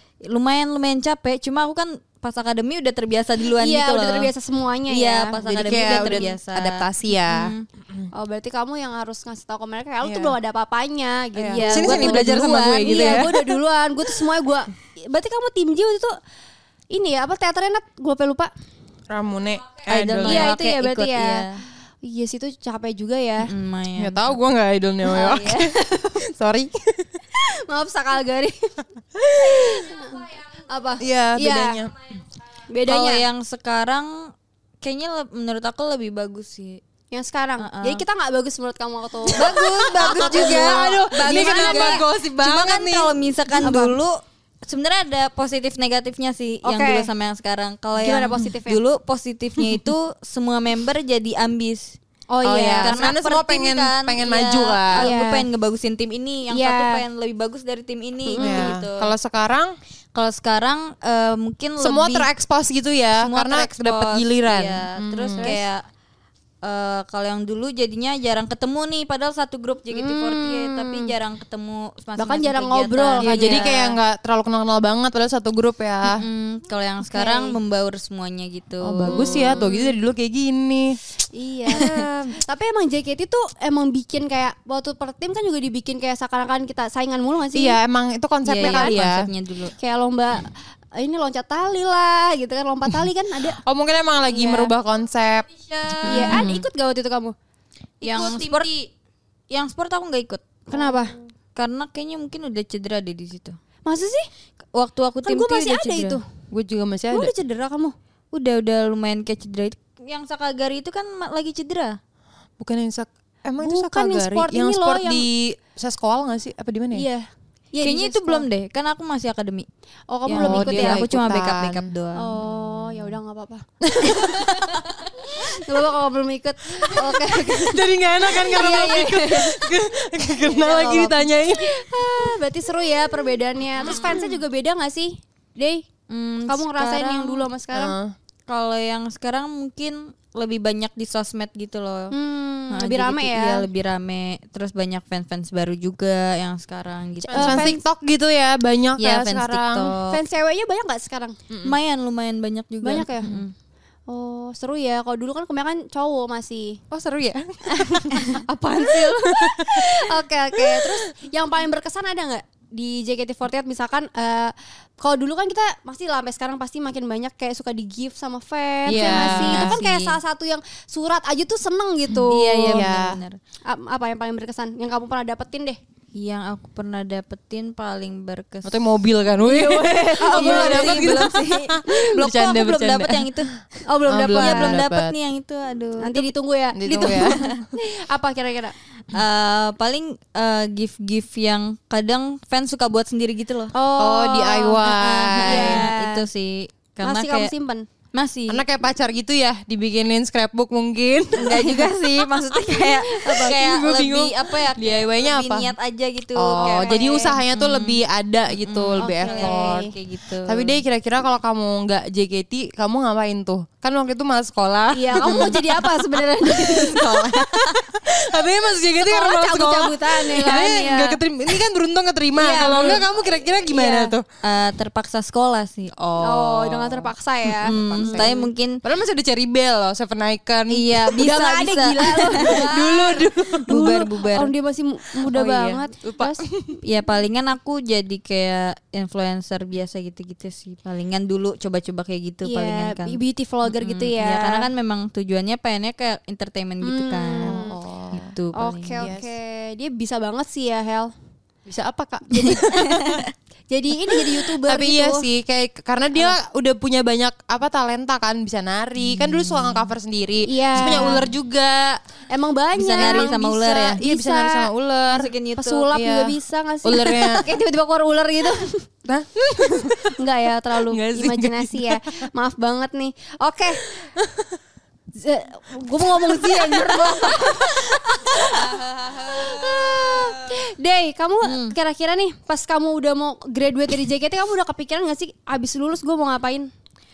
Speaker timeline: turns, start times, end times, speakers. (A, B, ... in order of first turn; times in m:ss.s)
0:00.2-0:04.3 A
0:03.5-0:06.2 B
0:04.9-0:07.6 A
0:05.4-0:08.0 C
0:08.1-0:16.2 B
0:10.0-0:10.3 C
0:11.4-0:13.6 C
0:11.5-0:13.3 A
0:16.9-0:18.5 B
0:19.1-0:20.5 C
0:19.9-0:21.6 A
0:20.2-0:21.4 B
0:22.0-0:23.5 B
0:23.4-0:24.4 A
0:24.0-0:27.1 C
0:25.1-0:26.2 B
0:27.3-0:31.9 B
0:31.0-0:31.9 C
0:32.7-0:33.2 B
0:32.8-0:36.8 A
0:37.1-0:42.0 B
0:37.6-0:38.0 A
0:39.3-0:43.2 C
0:39.3-0:52.0 A
0:43.5-0:44.0 B
0:46.6-0:47.1 B
0:48.0-0:48.8 B
0:52.3-0:53.0 B
0:52.4-0:55.1 C
0:52.8-0:59.1 A
0:55.0-0:55.4 B
0:56.5-0:57.0 B
0:58.3-0:58.8 B
0:58.4-0:59.7 C
1:00.1-1:02.3 A
1:01.8-1:05.6 C
1:03.2-1:05.8 A
1:06.6-1:13.9 A
1:09.9-1:11.1 B
1:12.2-1:13.8 B
1:13.2-1:16.2 C
1:16.0-1:19.8 A
1:17.0-1:17.6 B
1:18.8-1:21.0 C
1:19.1-1:19.8 B
1:21.3-1:27.8 B
1:27.5-1:29.3 C
1:28.4-1:29.7 A
1:28.6-1:28.9 B
1:29.8-1:33.6 B
1:33.6-1:36.5 C
1:34.3-1:34.7 B
1:36.0-1:36.6 A
1:36.0-1:37.3 B
1:38.0-1:38.7 A
1:38.0-1:38.8 C
1:39.5-1:43.6 A
1:40.7-1:41.1 B
1:43.8-1:44.3 B
1:44.7-1:46.2 A
1:45.2-1:46.2 B
1:46.5-1:47.3 C
1:47.1-1:47.9 B
1:48.3-1:52.0 A
1:52.6-1:57.0 C
1:53.6-1:55.3 B
1:56.9-1:58.4 B
1:57.8-1:59.7 A
2:00.1-2:01.1 B
2:00.2-2:02.4 A
2:00.3-2:01.9 C
2:02.1-2:09.7 B
2:03.8-2:04.8 C
2:06.8-2:11.8 C
2:10.4-2:15.8 B
2:16.1-2:17.5 A
2:16.5-2:17.9 B
2:17.7-2:18.1 C
2:18.5-2:22.1 A
2:22.1-2:23.7 B
2:22.7-2:27.7 A
2:27.2-2:29.9 C
2:27.3-2:27.8 B
2:29.0-2:30.2 A
2:30.0-2:31.4 B
2:31.5-2:31.8 C
2:31.6-2:33.5 A
2:32.8-2:33.3 B
2:34.1-2:36.8 B
2:36.9-2:38.3 C
2:37.7-2:52.9 B
2:38.9-2:41.0 C
2:48.9-2:49.8 C
2:48.9-2:50.2 A
2:52.3-2:53.4 A
2:52.5-2:53.2 C
2:53.7-2:55.8 B
2:56.1-2:58.8 A
2:58.6-3:03.5 C
2:59.4-3:01.2 B
3:00.2-3:03.5 A
3:03.8-3:04.8 B
3:04.1-3:05.1 C
3:04.2-3:06.3 A
3:06.0-3:08.7 B
3:06.8-3:07.6 C
3:07.0-3:07.6 A
3:09.1-3:13.7 A
3:13.7-3:16.2 B
3:14.0-3:15.9 C
3:14.8-3:17.5 A
3:17.0-3:17.8 B
3:18.1-3:18.6 A
3:18.5-3:21.9 C
3:21.4-3:30.8 A
3:23.1-3:23.6 B
3:23.3-3:25.7 C
3:26.4-3:29.9 C
3:26.6-3:27.4 B
3:29.0-3:29.9 B
3:30.4-3:35.9 C
3:34.9-3:37.6 B
3:35.3-3:35.5 A
3:36.4-3:44.2 C
3:39.0-3:41.2 B
3:42.3-3:43.1 B
3:43.6-3:44.1 B
3:44.4-3:46.5 A
3:46.0-3:47.0 C
3:46.2-3:48.4 B
3:47.5-3:48.8 A
3:47.6-3:51.2 C
3:50.7-3:52.7 A
3:51.1-3:56.4 B
3:52.4-3:53.8 C
3:53.6-3:54.5 A
3:55.3-3:56.8 C
3:56.8-4:09.1 A
4:02.4-4:04.7 B
4:06.8-4:07.7 B
4:07.4-4:08.3 C
4:08.5-4:11.1 B
4:09.0-4:09.3 C
4:11.7-4:13.2 C
4:12.3-4:13.0 B
4:12.8-4:13.3 A
4:13.7-4:15.3 B
4:14.1-4:22.0 C
4:19.1-4:19.9 A
4:20.4-4:21.3 B
4:20.8-4:21.3 A
4:22.3-4:24.7 B
4:22.8-4:24.0 A
4:23.0-4:25.3 C
4:25.1-4:25.9 A
4:25.6-4:28.8 B
4:25.9-4:27.5 C
4:29.0-4:30.2 C
4:29.6-4:33.8 B
4:30.9-4:32.1 C
4:34.2-4:34.5 C
4:35.1-4:46.7 B
4:36.2-4:37.5 C
4:38.4-4:40.3 A
4:41.4-4:41.7 A